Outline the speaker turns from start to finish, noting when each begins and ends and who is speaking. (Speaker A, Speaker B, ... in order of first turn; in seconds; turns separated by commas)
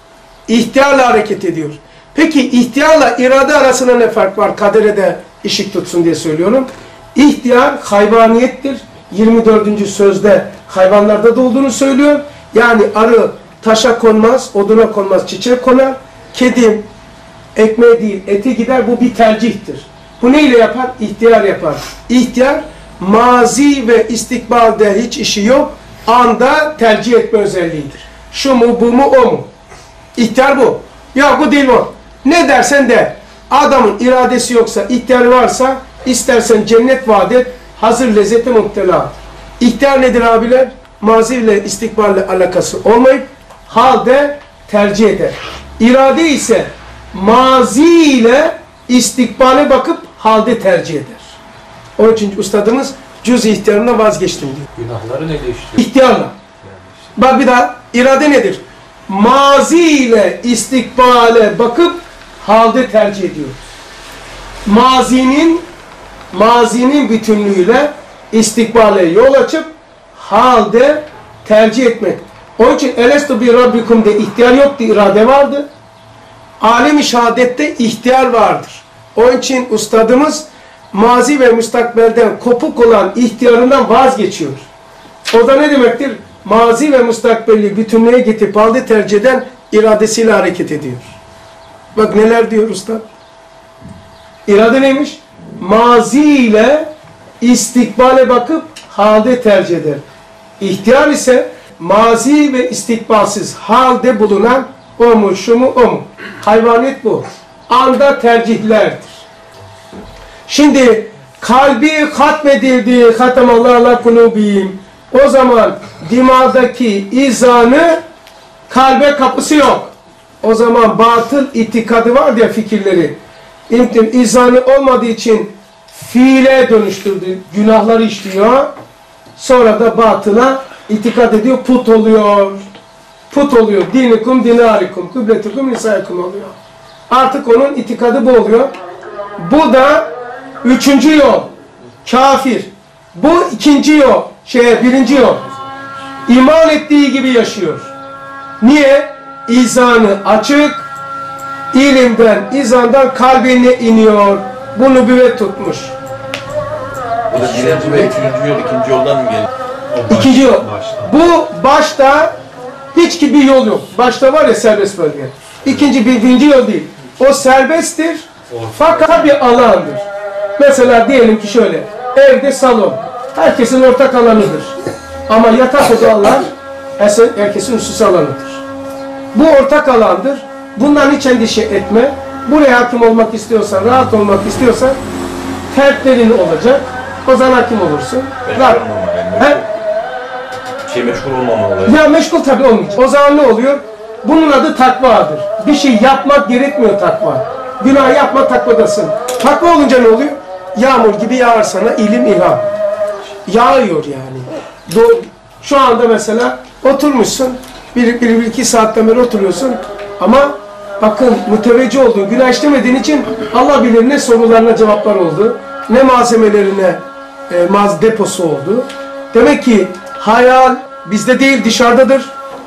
Speaker A: 0.5-16.9, Speaker A: 17.6-29.5, Speaker A: 30.2-51.4, Speaker A: 52.0-54.7, Speaker B: 54.8-55.8, Speaker A: 55.8-56.4, Speaker A: 57.2-63.6, Speaker A: 64.7-65.7, Speaker A: 66.3-75.7, Speaker A: 76.6-84.7, Speaker A: 85.3-91.2, Speaker A: 92.0-93.0, Speaker A: 94.5-96.9, Speaker A: 97.4-100.0, Speaker A: 100.6-109.2, Speaker A: 110.5-118.0, Speaker A: 118.7-123.2, Speaker A: 123.7-128.7, Speaker A: 129.4-132.6, Speaker A: 133.3-136.6, Speaker A: 137.1-138.7, Speaker A: 139.4-140.1, Speaker A: 140.6-141.5, Speaker A: 142.1-145.4, Speaker A: 146.3-147.9, Speaker A: 148.6-150.9, Speaker A: 151.7-155.9, Speaker C: 157.3-159.5, Speaker B: 157.4-158.1, Speaker A: 160.1-162.3, Speaker C: 160.1-160.9, Speaker A: 162.9-170.1, Speaker B: 168.5-169.2, Speaker A: 170.6-174.8, Speaker A: 175.3-178.6, Speaker A: 179.3-185.0, Speaker A: 185.7-188.8, Speaker C: 188.4-189.7, Speaker C: 190.8-192.0, Speaker A: 191.8-202.7, Speaker A: 203.5-222.3